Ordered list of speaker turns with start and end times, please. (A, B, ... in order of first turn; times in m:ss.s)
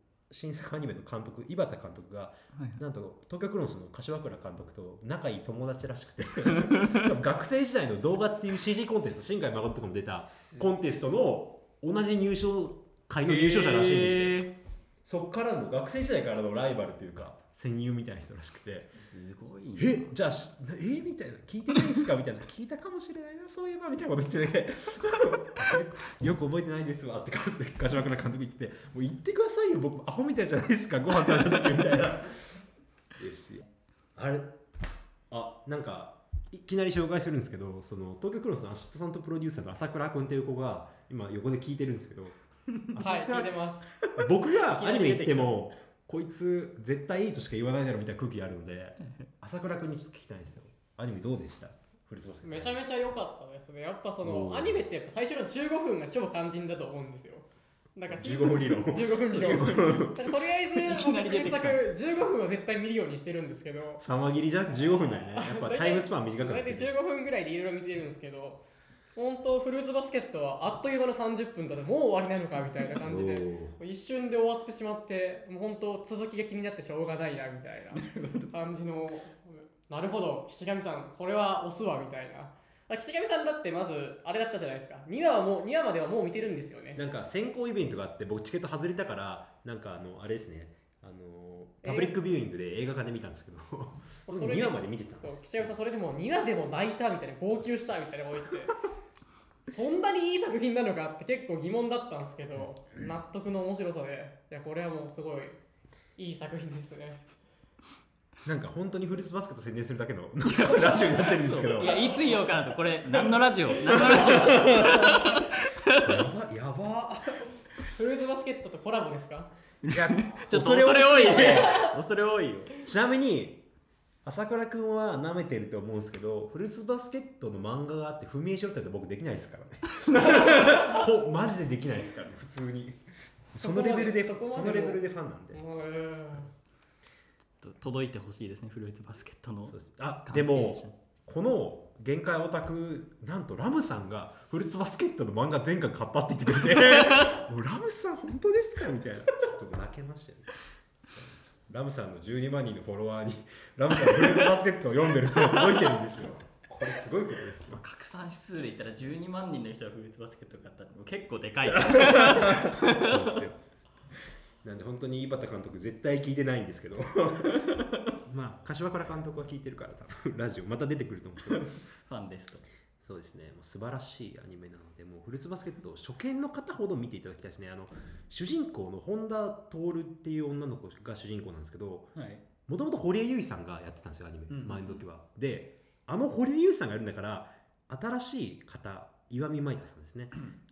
0:00.3-0:14.5 A
0:02.6-0:02.8 B
0:06.6-0:07.0 B
0:13.2-0:14.5 B
0:15.0-0:19.0 A
0:19.0-0:20.1 B
0:19.8-0:32.6 A
0:33.2-0:33.6 A
0:34.2-0:34.6 A
0:35.3-0:42.4 A
0:42.9-0:43.6 A
0:43.0-0:43.9 C
0:44.0-0:45.6 B
0:44.1-0:52.8 A
0:52.4-1:04.0 C
0:54.2-0:54.8 A
0:58.1-1:00.4 A
1:00.8-1:01.8 B
1:04.0-1:06.9 A
1:05.3-1:08.6 C
1:09.2-1:27.0 C
1:13.0-1:13.7 A
1:17.9-1:18.5 B
1:27.0-1:35.7 A
1:31.8-1:32.1 C
1:34.3-1:38.8 C
1:39.7-1:45.6 C
1:46.2-1:47.2 C
1:48.4-1:52.0 A
1:50.5-1:56.2 B
1:53.8-1:55.2 A
1:56.0-1:57.4 A
1:58.0-1:59.5 C
1:59.8-2:02.7 B
1:59.9-2:01.9 A
2:02.8-2:03.7 A
2:04.2-2:13.0 A
2:13.5-2:15.6 A
2:13.6-2:15.0 C
2:15.5-2:16.5 C
2:17.6-2:20.9 B
2:19.7-2:30.5 A
2:27.0-2:27.3 B
2:31.1-2:37.8 A
2:35.5-2:35.9 B
2:37.7-2:43.4 B
2:41.7-2:43.6 A
2:44.6-2:47.7 A
2:47.6-2:47.9 B
2:48.2-2:51.7 A
2:51.6-2:52.7 B
2:53.0-3:02.1 A
3:02.2-3:02.4 B
3:02.7-3:10.4 A
3:04.5-3:05.0 B